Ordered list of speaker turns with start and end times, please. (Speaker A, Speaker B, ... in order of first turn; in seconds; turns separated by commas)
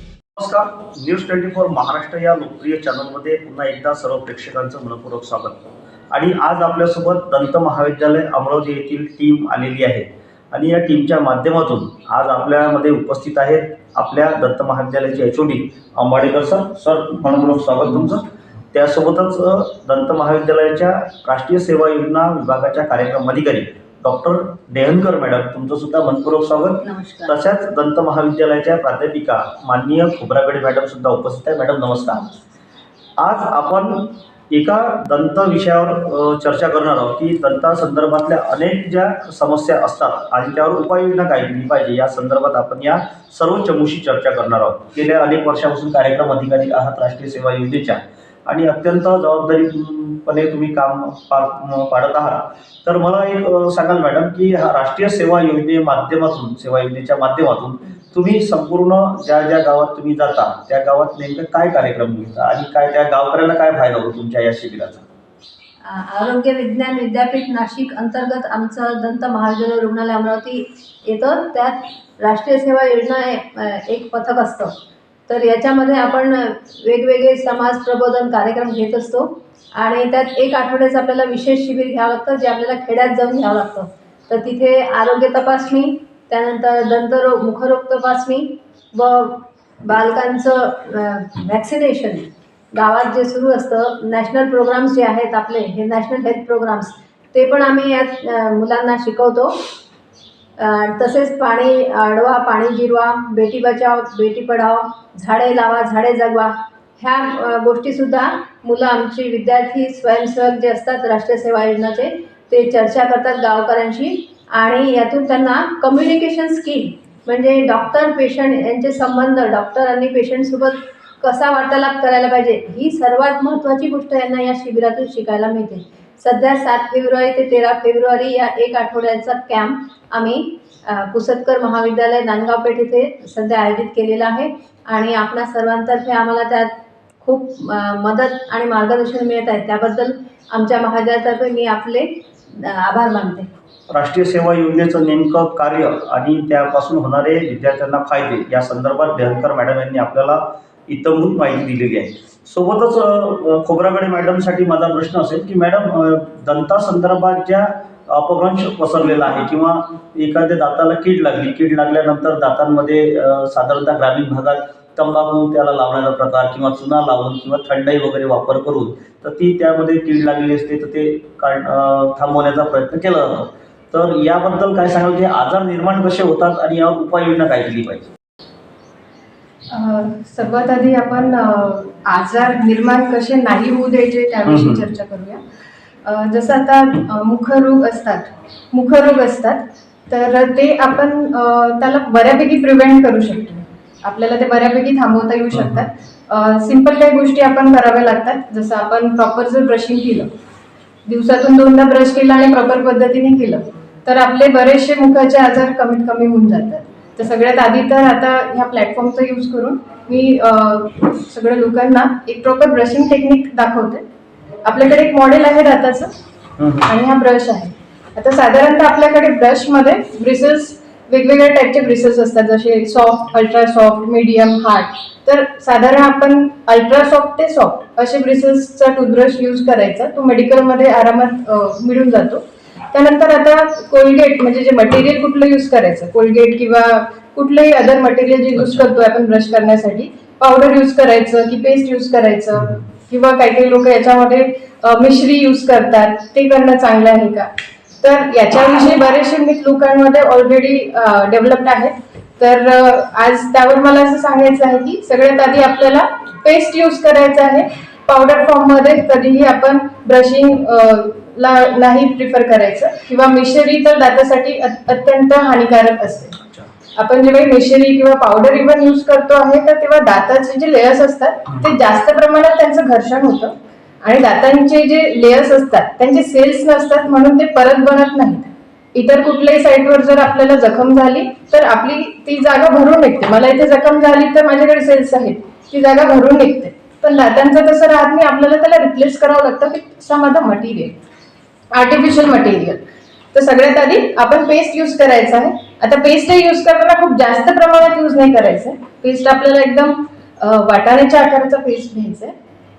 Speaker A: 0.4-32.3, Speaker B: 26.8-27.4, Speaker A: 33.2-65.0, Speaker B: 65.9-74.7, Speaker B: 75.3-99.5, Speaker B: 100.6-136.7, Speaker B: 137.2-143.5, Speaker A: 143.9-178.1, Speaker C: 179.7-185.4, Speaker A: 184.5-184.8, Speaker C: 186.0-200.3, Speaker A: 195.5-195.9, Speaker C: 201.1-214.0, Speaker C: 214.6-216.1, Speaker A: 216.6-216.9, Speaker C: 216.9-266.4, Speaker A: 238.6-238.8, Speaker C: 266.9-291.0, Speaker C: 291.7-302.3